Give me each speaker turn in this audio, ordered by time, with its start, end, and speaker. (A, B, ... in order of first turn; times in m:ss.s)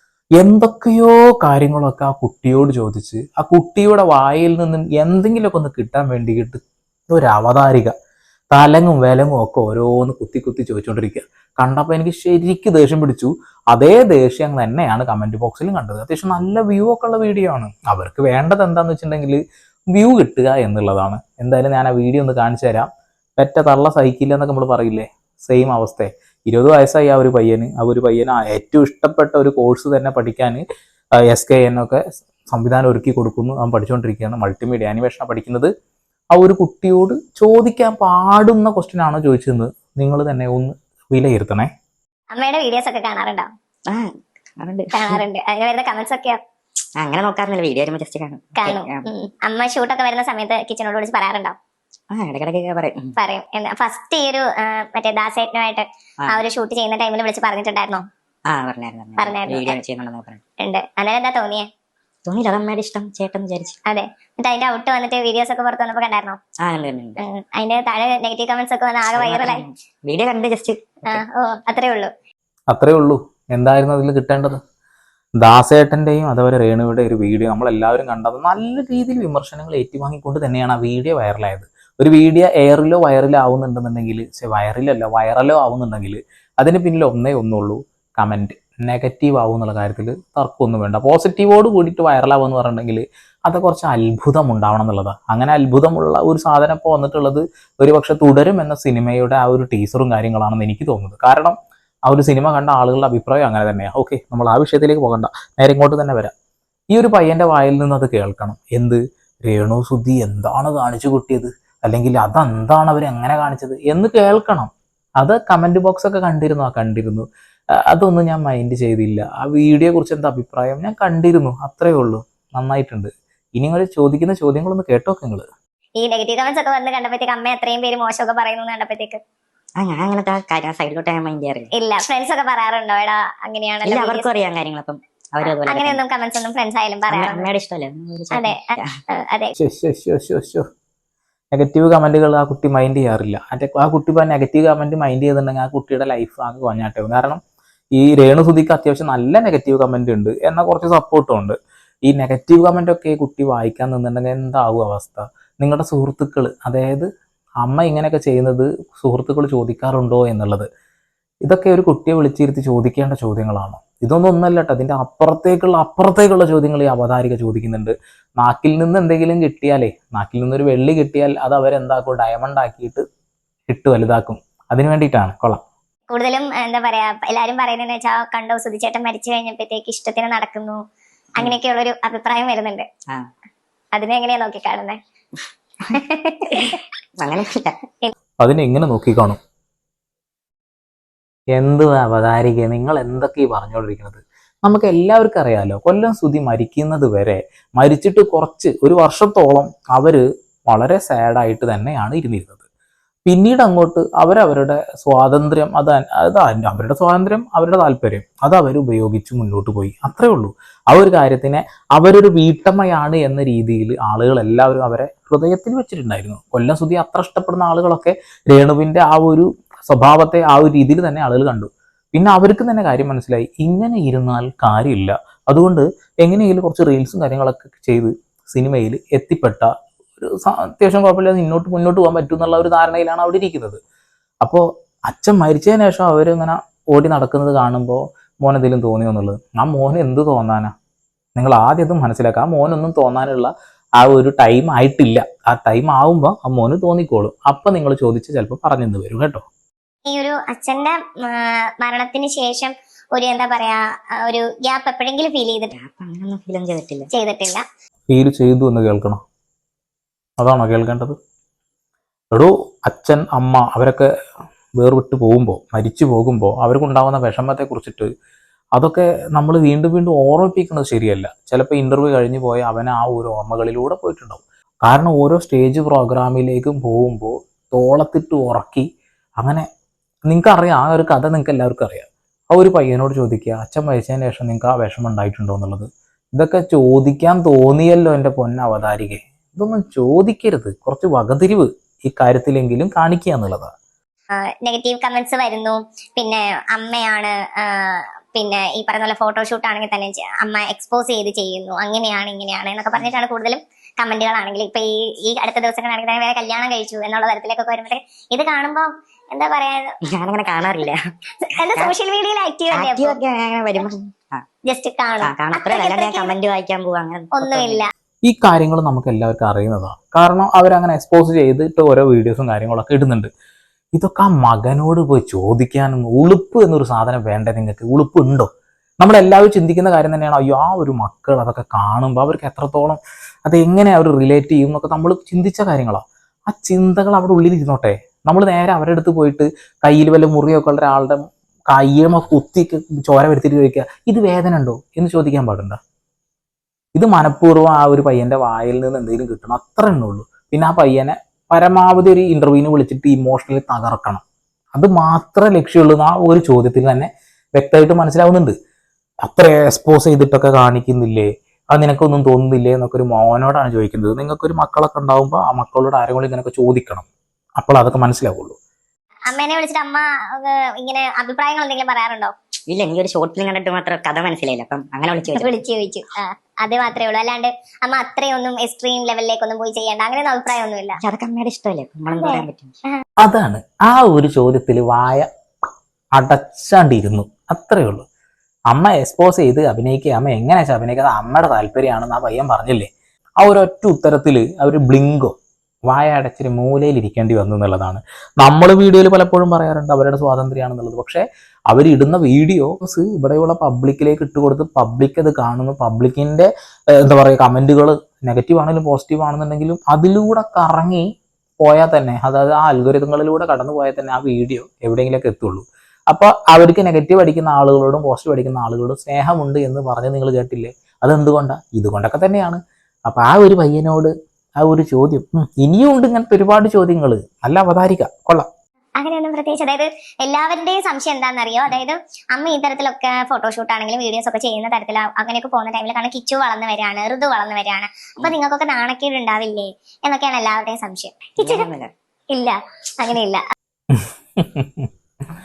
0:00.4-0:06.6 A
0:07.1-0:07.9 A
0:08.5-0:19.4 A
0:19.9-0:30.6 A
0:31.2-0:35.7 A
0:36.3-0:41.7 A
0:42.3-0:43.5 B
0:43.9-0:45.2 C
0:44.9-0:46.4 B
0:47.0-0:49.1 C
0:48.6-0:51.6 B
0:52.1-0:53.2 C
0:53.2-0:58.0 B
0:58.5-1:00.4 C
0:59.2-0:59.8 B
1:00.6-1:01.6 B
1:02.2-1:03.8 C
1:03.9-1:06.4 B
1:06.6-1:07.2 C
1:07.2-1:09.6 B
1:09.1-1:11.2 C
1:11.1-1:12.1 B
1:12.7-1:14.6 A
1:15.4-1:46.3 A
1:46.9-1:57.2 A
1:57.9-2:05.4 A
2:06.0-2:09.2 B
2:09.8-2:11.7 C
2:11.7-2:14.3 B
2:13.8-2:16.0 C
2:15.4-2:17.5 B
2:17.1-2:18.9 C
2:18.3-2:18.6 B
2:19.2-2:19.5 B
2:19.6-2:20.6 A
2:21.5-2:27.4 A
2:28.0-2:37.1 A
2:37.6-2:40.7 A
2:41.4-2:53.0 A
2:53.7-2:55.6 A
2:56.1-3:00.8 B
3:01.4-3:02.8 B
3:03.9-3:05.0 B
3:05.9-3:06.8 B
3:06.5-3:07.8 C
3:08.4-3:09.4 A
3:11.6-3:22.6 A
3:23.3-3:53.8 A
3:54.4-4:00.7 A
4:01.4-4:09.4 A
4:10.1-4:15.7 B
4:15.7-4:17.1 C
4:17.1-4:17.6 B
4:18.1-4:19.2 A
4:20.4-4:21.1 A
4:22.3-4:24.1 A
4:24.8-4:28.1 A
4:28.8-4:38.8 A
4:39.4-4:39.6 A
4:40.3-4:53.7 A
4:54.6-5:09.9 B
5:10.1-5:11.0 C
5:11.4-5:13.2 B
5:12.7-5:14.4 C
5:14.7-5:16.3 B
5:15.2-5:17.8 C
5:17.3-5:17.9 B
5:18.2-5:23.3 A
5:24.0-5:28.5 A
5:29.0-5:45.8 A
5:46.9-5:54.2 A
5:54.7-5:58.5 A
5:59.2-6:07.1 A
6:07.6-6:08.6 A
6:09.3-6:12.3 B
6:12.7-6:15.6 C
6:15.3-6:21.0 B
6:21.0-6:22.7 C
6:22.1-6:23.0 B
6:23.2-6:25.3 A
6:26.2-6:28.0 A
6:28.7-6:32.9 A
6:33.4-6:35.3 A
6:35.9-6:51.0 A
6:51.6-7:08.5 A
7:09.0-7:21.6 B
7:21.4-7:21.9 C
7:22.3-7:23.4 B
7:23.9-7:24.9 A